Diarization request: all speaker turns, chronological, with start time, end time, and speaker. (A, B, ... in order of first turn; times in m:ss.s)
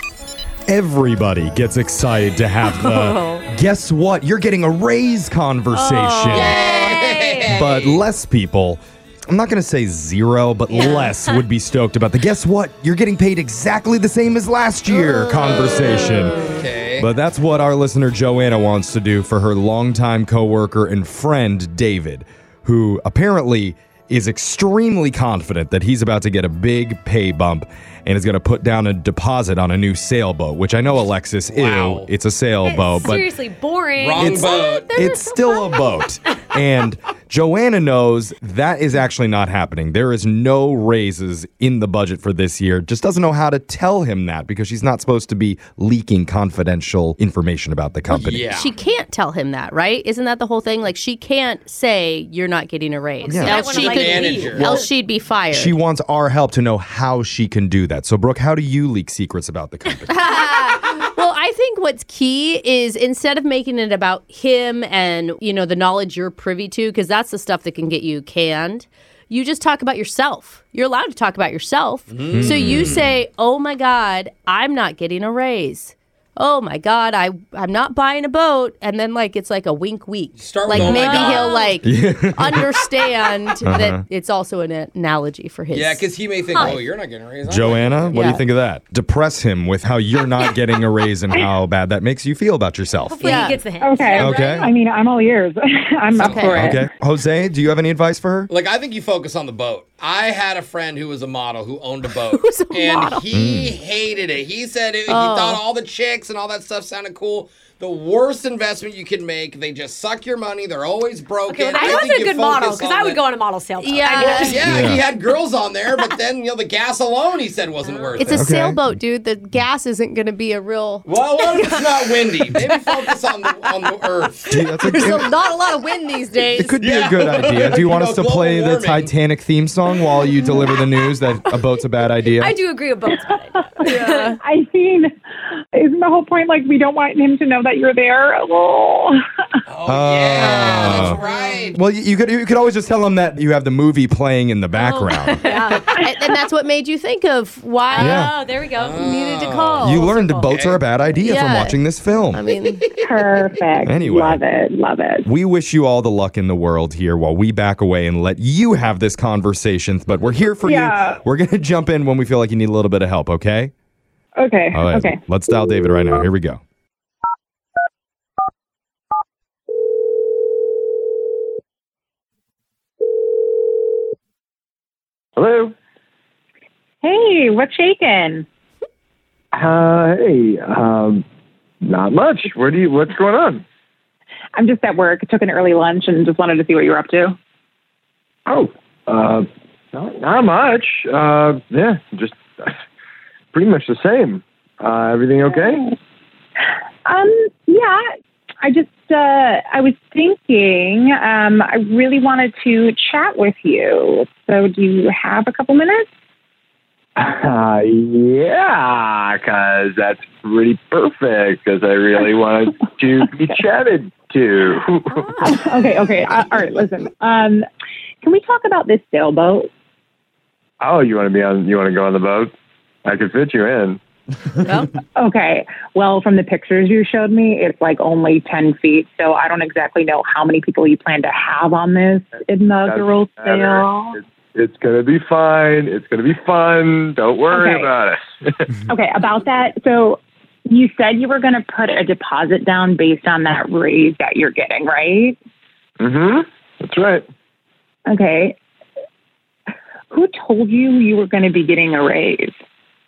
0:00.7-0:06.6 A
0:03.1-0:03.4 B
0:05.7-0:06.7 B
0:06.3-0:08.0 C
0:06.6-0:07.5 D
0:07.5-0:33.3 A
0:10.7-0:11.1 D
0:15.4-0:17.1 C
0:31.5-0:32.1 C
0:32.6-0:34.8 D
0:34.0-0:34.9 C
0:34.2-0:48.6 A
0:34.3-0:36.0 B
0:48.1-0:48.8 C
0:48.5-0:55.8 B
0:53.2-0:54.8 D
0:53.3-0:54.9 A
0:53.7-0:54.7 C
0:55.5-1:00.5 A
1:00.1-1:26.1 B
1:12.1-1:13.1 C
1:12.3-1:13.1 A
1:20.4-1:21.6 C
1:20.7-1:21.0 A
1:21.0-1:21.7 D
1:21.8-1:22.7 A
1:23.6-1:24.0 A
1:25.7-1:28.2 C
1:26.5-1:26.8 D
1:27.4-1:33.5 A
1:28.1-1:28.4 B
1:33.1-1:34.3 D
1:33.2-1:33.6 B
1:33.8-1:36.8 E
1:34.1-1:34.7 A
1:34.1-1:34.7 C
1:36.2-1:36.8 C
1:36.2-1:36.8 B
1:36.4-1:38.5 A
1:38.5-1:53.2 C
1:42.1-1:43.4 B
1:43.3-1:43.8 A
1:45.1-1:45.6 B
1:51.5-1:54.9 D
1:53.8-1:54.6 B
1:54.2-1:58.5 C
1:54.6-1:55.0 A
1:57.8-1:58.2 D
1:58.2-2:02.8 B
1:58.3-1:58.8 A
2:01.1-2:04.6 C
2:04.5-2:05.3 A
2:04.7-2:06.8 B
2:06.5-2:12.6 A
2:06.8-2:09.1 C
2:12.3-2:14.3 D
2:13.7-2:15.1 E
2:13.8-2:14.4 B
2:15.7-2:19.2 E
2:19.7-2:21.8 C
2:19.9-2:25.4 A
2:20.4-2:21.2 B
2:21.0-2:21.7 D
2:24.7-2:25.9 D
2:25.4-2:28.3 B
2:27.9-2:29.3 D
2:28.0-2:28.3 A
2:28.7-2:30.8 C
2:29.0-2:30.1 B
2:29.8-2:32.4 A
2:29.8-2:30.5 D
2:31.2-2:31.8 B
2:32.3-2:32.8 B
2:33.0-2:35.3 E
2:33.8-2:34.4 A
2:35.2-2:43.7 A
2:40.6-2:41.2 E
2:44.4-2:45.2 E
2:44.7-2:46.6 A
2:55.4-2:55.7 F
2:57.0-2:58.5 E
2:59.5-3:01.2 F
3:01.8-3:03.6 F
3:04.6-3:07.4 E
3:08.5-3:12.8 F
3:13.5-3:15.9 F
3:17.1-3:18.0 E
3:18.6-3:26.1 E
3:27.2-3:35.6 F
3:35.4-3:37.6 E
3:38.2-3:39.7 E
3:40.8-3:42.5 F
3:43.0-3:44.0 F
3:44.6-3:44.9 B
3:45.2-3:54.2 E
3:52.8-3:58.7 F
3:57.5-3:57.9 E
3:58.9-4:05.4 E
4:06.0-4:07.3 F
4:08.1-4:08.6 E
4:10.1-4:12.6 E